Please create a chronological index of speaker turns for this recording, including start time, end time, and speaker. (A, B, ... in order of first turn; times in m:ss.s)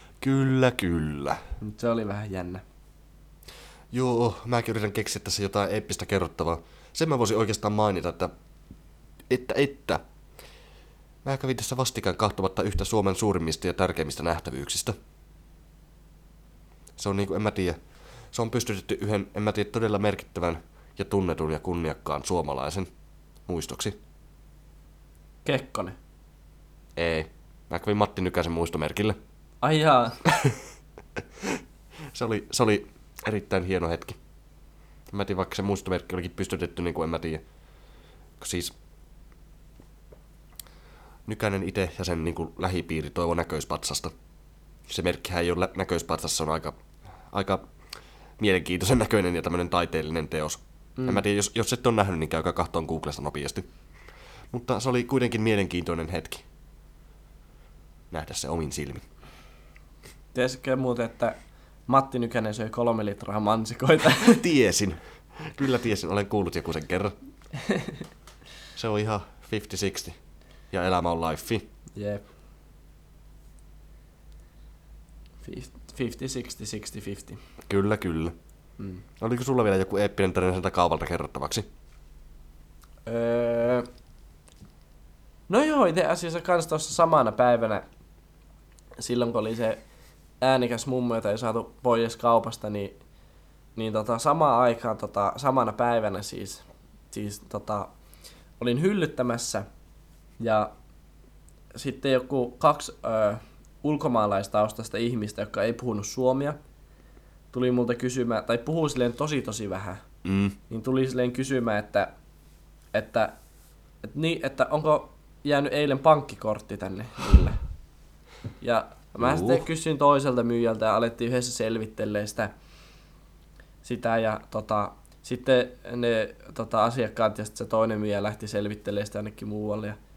0:00.2-0:01.4 A
0:01.6-0:02.6 B
0:03.9-0:08.3 A
0:09.3-0:10.0 A
0:11.2-0:14.9 A
0:17.0-0:17.8 A
0:18.3-0:22.9 A
0:23.5-0:24.0 A
0:25.4-0:26.0 B
0:27.0-0:29.2 A
0:29.6-0:30.2 B
0:30.3-0:30.6 A
0:32.1-0:34.2 A
0:35.1-0:37.4 A
0:38.4-0:38.7 A
0:41.2-0:44.1 A
0:44.9-0:46.8 A
0:47.3-0:47.7 A
0:48.4-0:53.6 A
0:51.0-0:51.2 B
0:54.5-0:56.4 A
0:58.1-0:59.0 A
1:00.3-1:01.4 B
1:01.9-1:04.4 B
1:04.2-1:07.1 A
1:07.7-1:07.9 B
1:08.7-1:10.2 A
1:10.7-1:11.6 A
1:11.9-1:12.2 B
1:15.4-1:17.4 B
1:17.7-1:18.3 A
1:18.8-1:19.0 B
1:19.2-1:21.6 A
1:23.0-1:23.8 B
1:25.5-1:27.8 B
1:29.0-1:29.8 B
1:30.4-1:32.9 B
1:33.8-1:37.9 B
1:38.6-1:39.6 B
1:40.4-1:40.7 B
1:41.7-1:46.6 B
1:47.5-1:50.0 B
1:50.2-1:50.6 A
1:50.7-1:52.1 B
1:52.9-1:53.3 B
1:54.0-1:57.6 B
1:58.6-2:02.5 B
1:59.2-1:59.6 A
2:03.8-2:10.0 B